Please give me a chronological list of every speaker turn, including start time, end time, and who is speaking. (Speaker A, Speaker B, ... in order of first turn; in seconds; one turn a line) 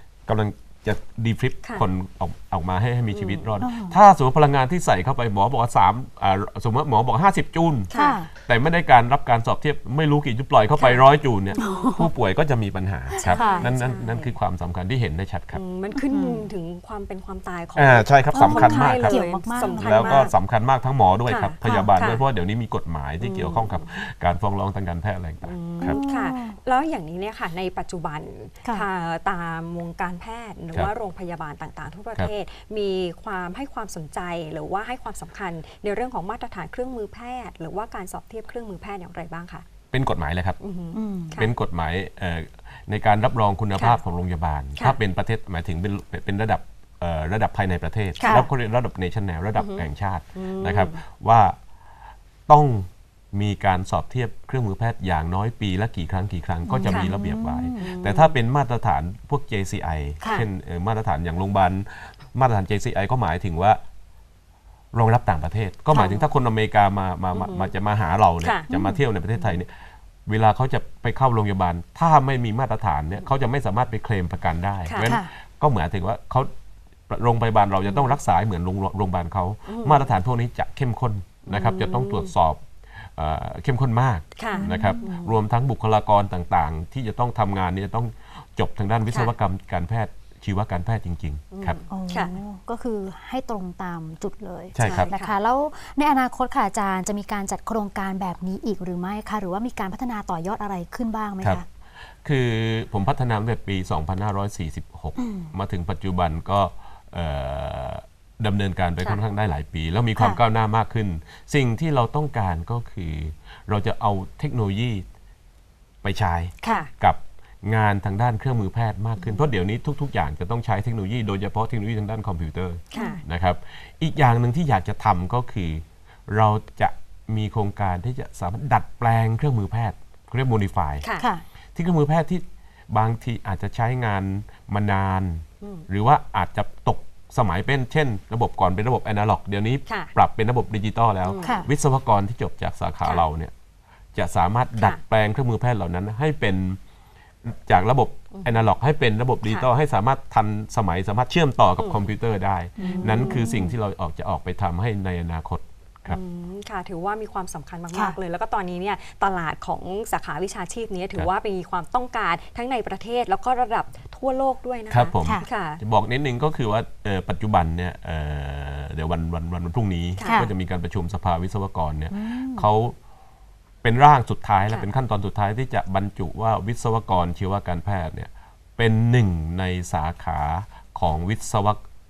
Speaker A: 0.3-15.6
Speaker B: 3.1-3.5
Speaker C: 3.6-4.0
Speaker B: 7.9-8.2
Speaker C: 7.9-8.3
Speaker B: 10.8-11.8
Speaker C: 11.6-12.1
Speaker C: 13.1-13.7
Speaker B: 13.2-14.3
Speaker B: 15.5-20.3
Speaker C: 15.9-16.5
Speaker A: 17.8-26.0
Speaker C: 18.3-20.3
Speaker B: 21.3-22.2
Speaker C: 21.6-21.9
Speaker B: 23.2-23.9
Speaker B: 25.4-39.6
Speaker C: 25.8-26.6
Speaker A: 39.9-40.6
Speaker B: 40.6-41.5
Speaker C: 40.9-41.4
Speaker A: 41.4-51.5
Speaker B: 48.2-48.5
Speaker B: 49.6-49.8
Speaker B: 50.4-51.0
Speaker A: 52.5-63.8
Speaker C: 56.6-57.9
Speaker B: 56.8-57.2
Speaker B: 57.8-58.3
Speaker C: 60.2-60.5
Speaker A: 64.9-69.7
Speaker B: 65.9-66.3
Speaker B: 67.3-67.7
Speaker B: 68.4-68.7
Speaker C: 68.7-69.0
Speaker A: 70.2-76.5
Speaker B: 74.8-75.2
Speaker C: 75.0-75.3
Speaker A: 77.1-91.8
Speaker B: 79.7-80.1
Speaker B: 81.5-82.3
Speaker B: 84.4-85.4
Speaker C: 84.5-85.1
Speaker B: 89.0-89.3
Speaker B: 91.5-92.3
Speaker C: 91.9-101.7
Speaker A: 94.7-95.1
Speaker B: 94.8-95.4
Speaker A: 102.2-115.0
Speaker C: 105.2-105.5
Speaker C: 110.2-110.4
Speaker A: 116.0-131.1
Speaker B: 116.6-116.9
Speaker B: 119.2-119.5
Speaker B: 122.9-123.2
Speaker C: 123.0-123.2
Speaker B: 131.0-131.3
Speaker C: 131.2-131.4
Speaker A: 131.7-143.5
Speaker B: 139.9-140.1
Speaker B: 141.2-141.6
Speaker C: 141.4-141.7
Speaker A: 144.1-146.8
Speaker A: 147.4-156.2
Speaker B: 148.3-148.6
Speaker B: 151.8-152.0
Speaker C: 152.8-153.8
Speaker B: 152.8-153.4
Speaker B: 156.1-165.8
Speaker C: 157.9-158.2
Speaker A: 164.9-172.9
Speaker C: 165.2-165.5
Speaker B: 170.2-170.5
Speaker C: 170.2-170.5
Speaker C: 172.1-172.7
Speaker A: 173.8-181.8